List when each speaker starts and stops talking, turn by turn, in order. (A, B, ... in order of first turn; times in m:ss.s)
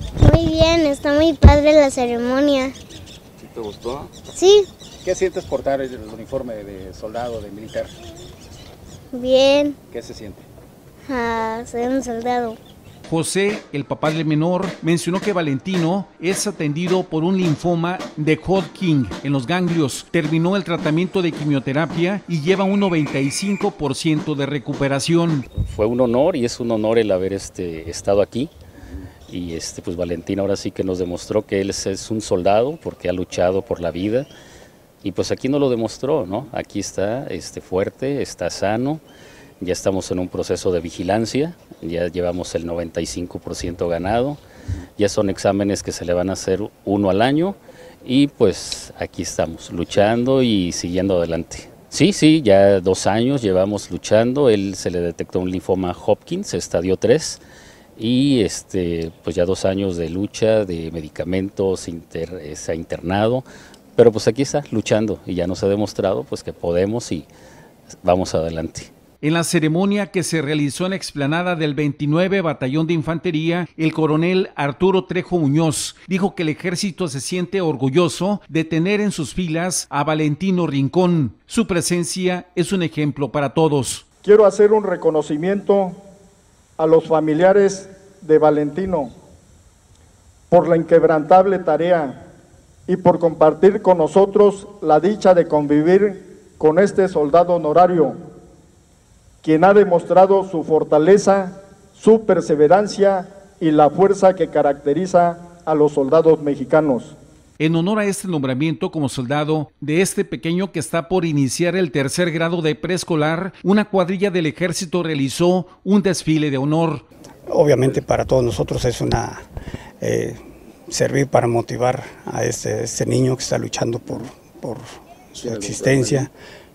0:00.2-0:02.7 A
0:03.4-0:04.2 B
0:04.3-0:04.7 A
0:05.0-0:07.9 B
0:09.1-0:09.8 A
0:09.9-0:10.4 B
0:11.1-0:12.6 A
0:13.1-0:25.4 C
0:25.6-0:28.5 D
0:29.3-0:34.3 D
0:35.0-0:39.0 D
0:39.6-0:44.4 D
0:45.0-0:57.4 D
0:58.0-1:03.4 D
1:04.0-1:07.3 D
1:08.0-1:08.9 D
1:09.2-1:24.0 C
1:24.2-1:26.0 E
1:26.8-1:29.1 E
1:30.5-1:32.2 E
1:32.9-1:38.2 E
1:39.4-1:47.2 E
1:47.6-1:57.0 C
1:57.5-1:59.4 F
2:00.0-2:06.3 F
2:05.4-2:06.3 B